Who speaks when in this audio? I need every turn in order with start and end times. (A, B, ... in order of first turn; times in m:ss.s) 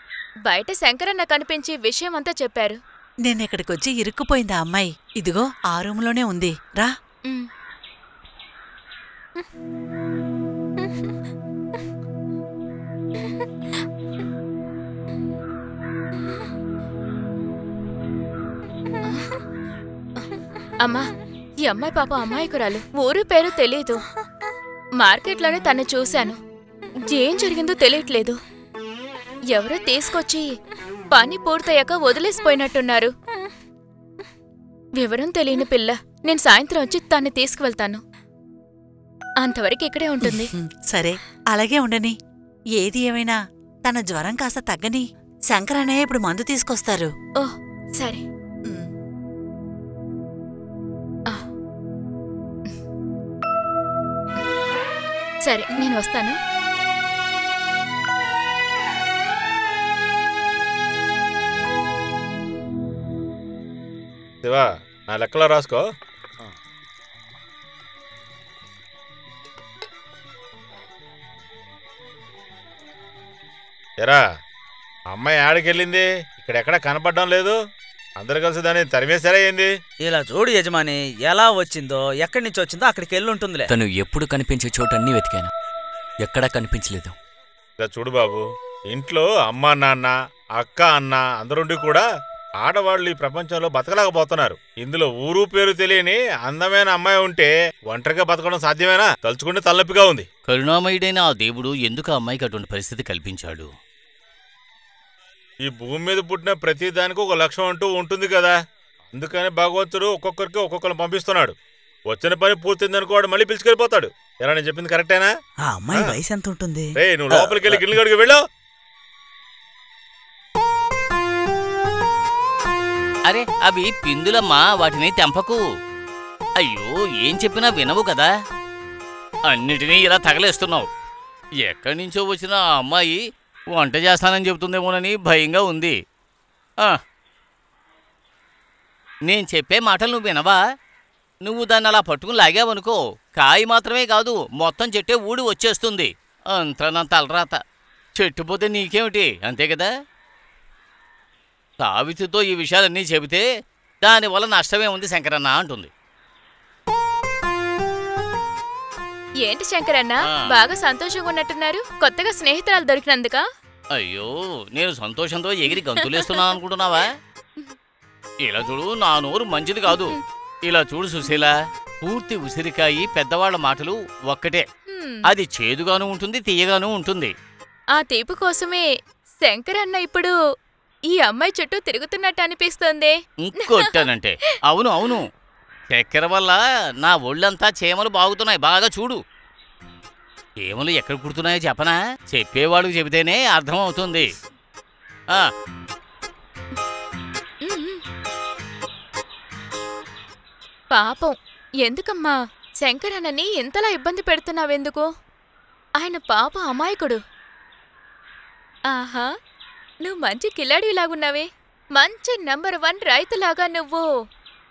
0:00.4-0:02.8 A
0:03.2-0:06.9 B
0:20.8-0:21.1 A
0:21.6-0:24.1 A
0:25.0-0:26.4 A
0:27.0-0:28.4 A
0:29.5-0:30.6 A
0:31.1-0:33.1 A
0:35.0-0:38.0 A
0:39.4-0:40.5 A
0:40.2-0:42.2 B
0:42.8-0:47.1 B
0:47.4-0:48.2 A
0:55.4-0:56.4 A
1:04.4-1:05.8 C
1:15.1-1:17.6 C
1:18.2-1:19.7 C
1:20.0-1:23.7 D
1:23.7-1:25.5 E
1:26.2-1:27.1 E
1:27.8-1:32.0 C
1:32.6-1:40.2 C
1:40.5-1:43.7 F
1:45.7-1:48.6 C
1:49.1-1:51.5 C
1:52.1-1:55.3 C
1:55.6-1:57.9 D
1:57.0-1:58.4 C
2:03.3-2:05.6 F
2:06.6-2:08.3 F
2:09.5-2:10.9 F
2:11.6-2:13.2 F
2:13.7-2:16.0 F
2:19.3-2:20.6 F
2:21.4-2:27.6 F
2:28.2-2:29.9 F
2:31.8-2:33.4 F
2:34.0-2:35.9 F
2:39.4-2:43.4 A
2:44.0-2:47.2 F
2:45.8-2:46.5 A
2:48.4-2:54.6 F
2:49.9-2:50.2 A
2:54.9-2:55.2 A
2:55.3-2:57.3 F
2:58.0-2:58.9 A
2:59.4-3:00.3 A
3:01.1-3:04.0 A
3:03.4-3:05.2 F
3:05.9-3:09.2 F
3:10.6-3:14.3 F
3:17.6-3:18.0 A
3:20.9-3:25.1 A
3:26.0-3:27.2 A
3:28.9-3:29.3 A
3:30.0-3:34.1 A